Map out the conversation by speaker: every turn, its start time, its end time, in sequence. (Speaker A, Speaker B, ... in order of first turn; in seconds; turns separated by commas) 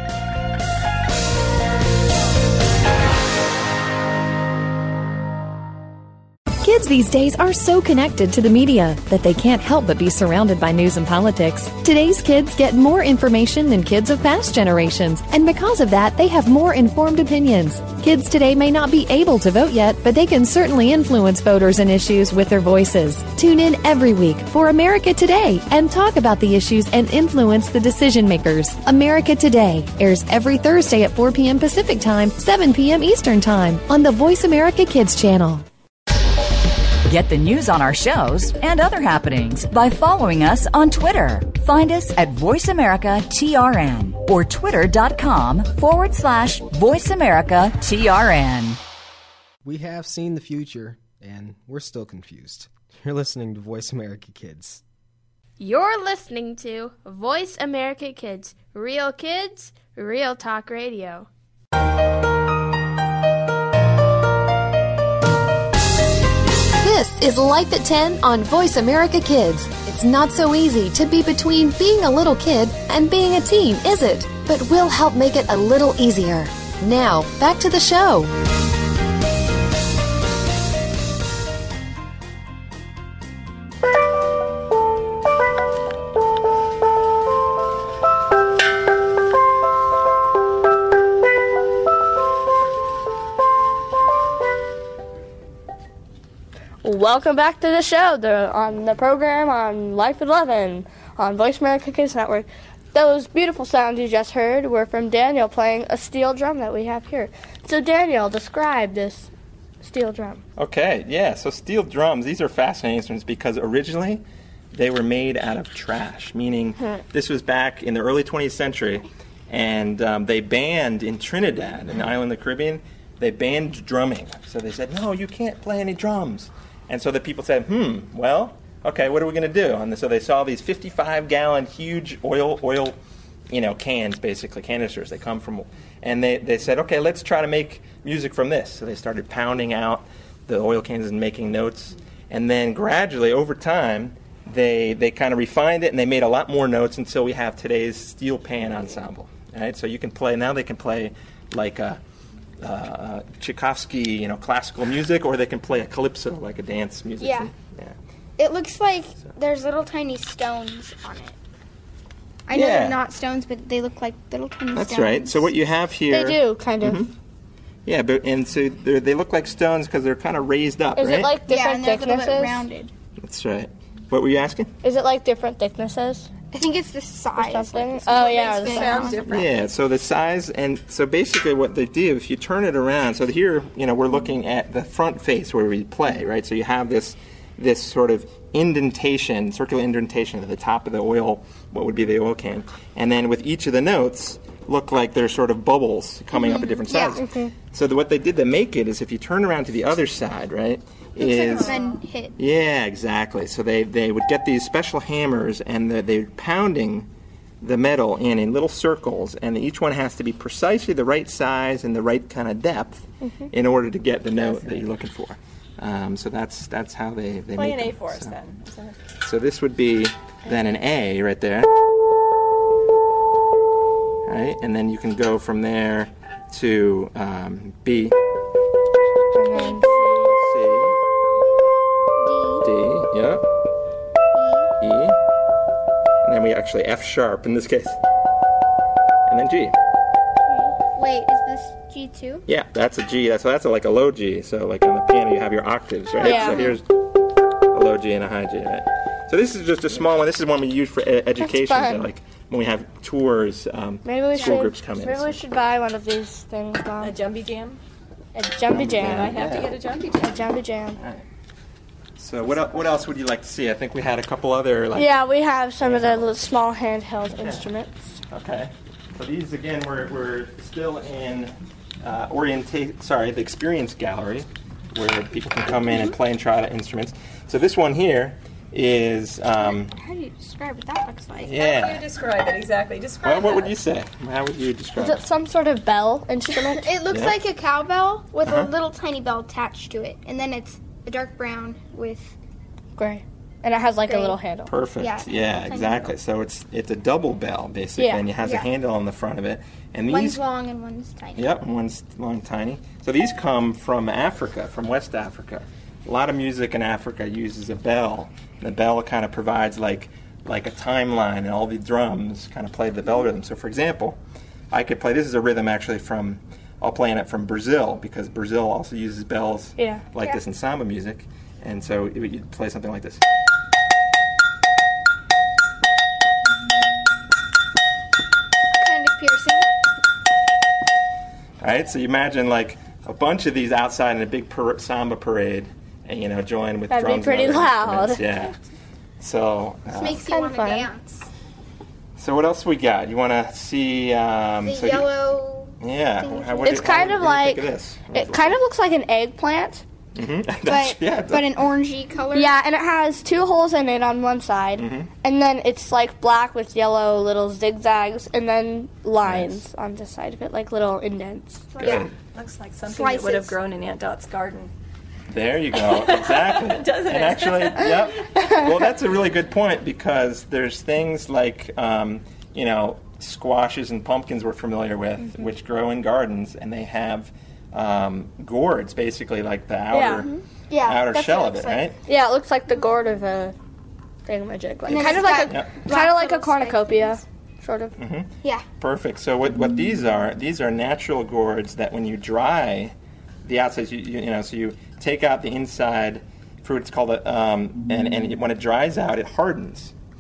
Speaker A: 6.6-35.6, Speaker B: 37.1-48.8, Speaker C: 49.6-54.8, Speaker D: 55.6-61.3, Speaker E: 66.8-78.3, Speaker F: 96.8-110.4, Speaker G: 110.6-114.2, Speaker G: 114.7-133.0, Speaker G: 133.5-152.0, Speaker G: 152.6-157.9, Speaker H: 157.2-157.5, Speaker H: 158.4-161.4, Speaker H: 162.5-165.5, Speaker G: 162.5-163.0, Speaker G: 164.7-167.1, Speaker F: 166.1-167.1, Speaker G: 167.9-171.3, Speaker F: 171.0-172.7, Speaker H: 171.5-172.9, Speaker G: 173.2-174.7, Speaker F: 174.8-176.3, Speaker H: 176.5-179.4, Speaker F: 177.4-179.2, Speaker I: 178.7-179.7, Speaker G: 179.3-201.8, Speaker H: 196.3-197.2, Speaker F: 197.2-197.5, Speaker H: 201.2-202.3, Speaker G: 202.4-207.1, Speaker G: 207.6-218.4, Speaker I: 214.4-214.8, Speaker I: 217.5-219.0, Speaker G: 219.2-221.7, Speaker G: 224.3-228.2, Speaker F: 229.3-230.3, Speaker H: 229.5-229.9, Speaker G: 230.4-231.0, Speaker H: 232.2-232.7, Speaker G: 232.6-233.4, Speaker H: 234.3-234.7, Speaker G: 234.8-235.2, Speaker G: 236.2-238.0, Speaker G: 239.3-239.8, Speaker H: 240.6-242.4, Speaker G: 242.5-246.9, Speaker H: 246.2-246.8, Speaker F: 246.2-246.7, Speaker G: 247.7-255.4, Speaker F: 251.4-252.1, Speaker F: 254.1-257.1, Speaker I: 257.0-257.8, Speaker F: 258.4-259.4, Speaker G: 258.7-259.8, Speaker I: 259.0-260.4, Speaker F: 260.1-261.0, Speaker G: 261.0-261.2, Speaker G: 262.2-265.2, Speaker F: 264.9-268.1, Speaker G: 265.8-266.3, Speaker G: 267.4-267.7, Speaker G: 268.3-279.9, Speaker H: 279.6-281.6, Speaker G: 281.4-282.1, Speaker I: 281.6-283.8, Speaker G: 283.2-285.2, Speaker F: 285.0-286.9, Speaker H: 286.8-292.4, Speaker G: 287.1-287.4, Speaker G: 288.4-288.7, Speaker F: 293.0-294.7, Speaker H: 294.1-294.4, Speaker G: 294.7-300.4, Speaker H: 295.0-296.1, Speaker F: 298.0-298.2, Speaker H: 298.4-298.7, Speaker H: 300.1-301.5, Speaker G: 301.4-314.2, Speaker G: 314.7-323.3, Speaker F: 319.8-320.0, Speaker H: 328.8-329.7, Speaker G: 331.6-338.6, Speaker F: 336.9-338.2, Speaker G: 339.2-340.3, Speaker H: 339.9-341.3, Speaker F: 340.2-340.9, Speaker G: 342.2-345.1, Speaker H: 344.6-347.1, Speaker G: 345.8-348.6, Speaker F: 346.6-349.8, Speaker G: 350.1-351.7, Speaker H: 350.6-352.5, Speaker F: 352.3-361.7, Speaker G: 354.8-355.1, Speaker G: 359.2-359.6, Speaker H: 361.7-362.1, Speaker G: 361.8-362.1, Speaker I: 361.9-364.7, Speaker H: 362.8-363.6, Speaker G: 365.3-382.0, Speaker I: 365.8-368.2, Speaker F: 368.4-368.6, Speaker F: 379.9-380.2, Speaker H: 380.2-381.9, Speaker F: 382.1-383.6, Speaker F: 384.3-387.9, Speaker H: 384.9-387.2, Speaker G: 385.0-385.8, Speaker G: 388.0-399.9